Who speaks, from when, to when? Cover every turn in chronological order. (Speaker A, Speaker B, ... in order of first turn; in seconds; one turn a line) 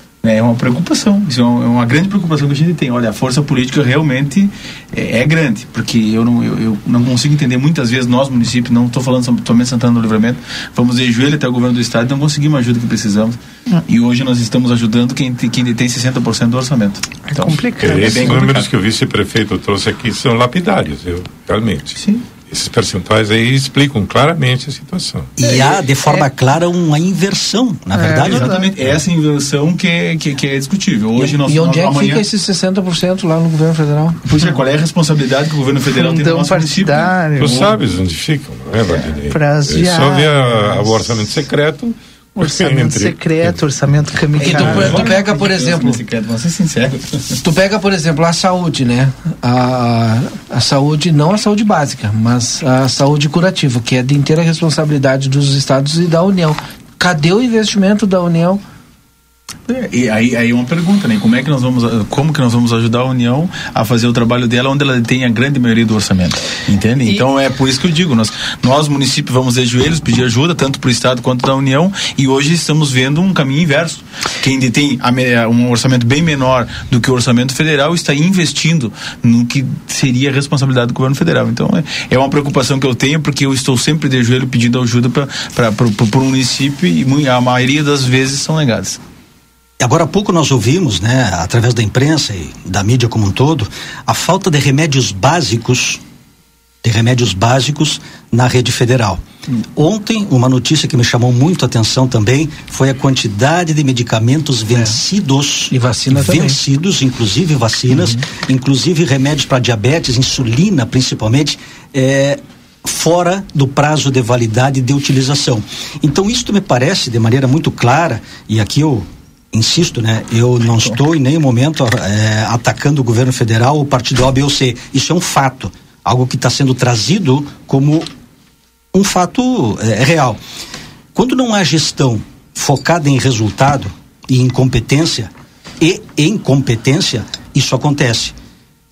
Speaker A: 0.2-18.7
Speaker B: 17.3-18.6
Speaker C: 17.8-25.3
Speaker D: 25.4-28.5
Speaker B: 25.4-26.3
Speaker B: 27.9-28.7
Speaker A: 28.1-32.2
Speaker E: 31.2-34.2
Speaker A: 34.2-37.6
Speaker B: 35.9-37.7
Speaker C: 37.4-43.6
Speaker B: 39.3-40.7
Speaker B: 42.4-44.9
Speaker E: 44.4-46.0
Speaker A: 44.4-47.4
Speaker C: 44.4-45.0
Speaker E: 47.4-58.6
Speaker A: 59.7-89.0
Speaker D: 89.8-96.0
Speaker D: 96.8-99.2
Speaker D: 99.8-128.1
Speaker E: 104.7-105.0
Speaker E: 105.7-106.6
Speaker D: 128.9-130.4
Speaker D: 131.1-138.3